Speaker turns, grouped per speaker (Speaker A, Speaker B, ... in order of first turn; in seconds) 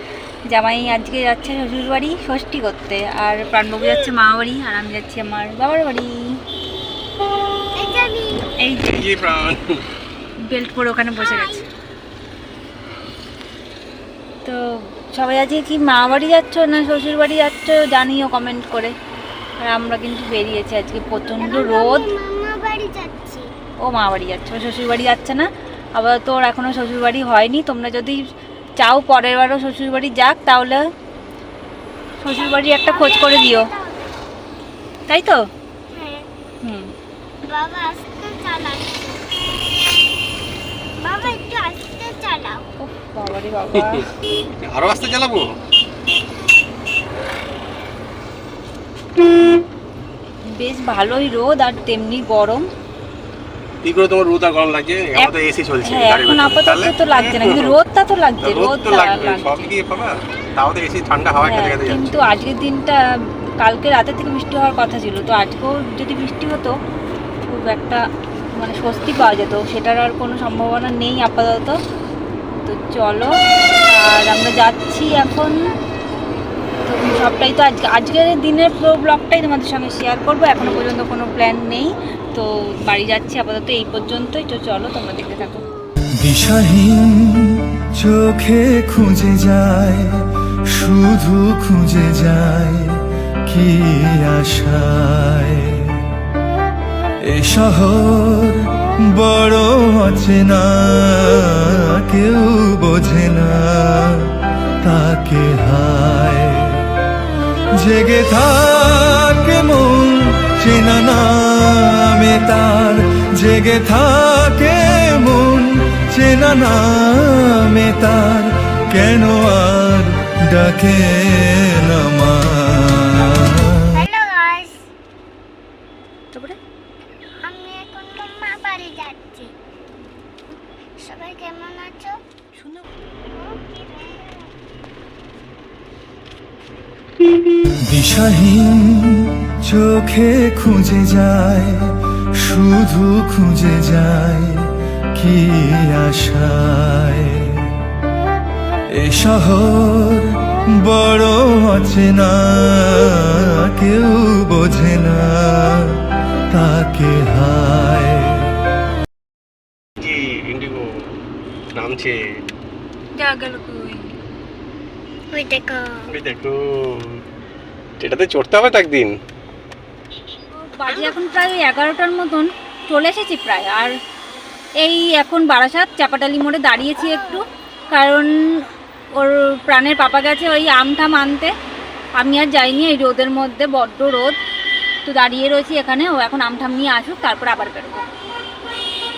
Speaker A: 0.5-6.4, 8.6-9.0, 10.5-11.6, 15.1-18.9, 19.6-22.1, 23.8-28.2, 28.8-30.8, 32.2-33.7, 35.1-35.4, 36.6-36.9, 42.8-44.1, 50.5-52.6, 55.8-59.7, 61.4-63.0, 63.6-66.7, 67.5-68.0, 68.6-71.8, 72.6-73.3, 73.9-75.7, 76.8-85.6, 163.2-164.1, 170.7-173.9, 174.8-181.5, 182.2-184.3, 185.0-188.0
Speaker B: 7.7-8.4, 11.2-11.6, 21.4-23.5, 32.3-34.1, 35.9-36.3, 37.5-39.3, 41.0-42.6, 123.9-124.8, 127.4-129.5, 131.0-132.2, 133.3-134.4, 165.3-166.1
Speaker C: 8.8-9.7, 44.7-45.4, 53.8-57.8, 58.4-62.2, 160.0-160.8, 161.7-162.2, 166.1-167.0, 168.0-169.1
Speaker D: 86.2-96.0, 97.3-104.3, 104.8-106.8, 107.8-123.8, 137.8-147.7, 148.9-155.9, 156.5-158.4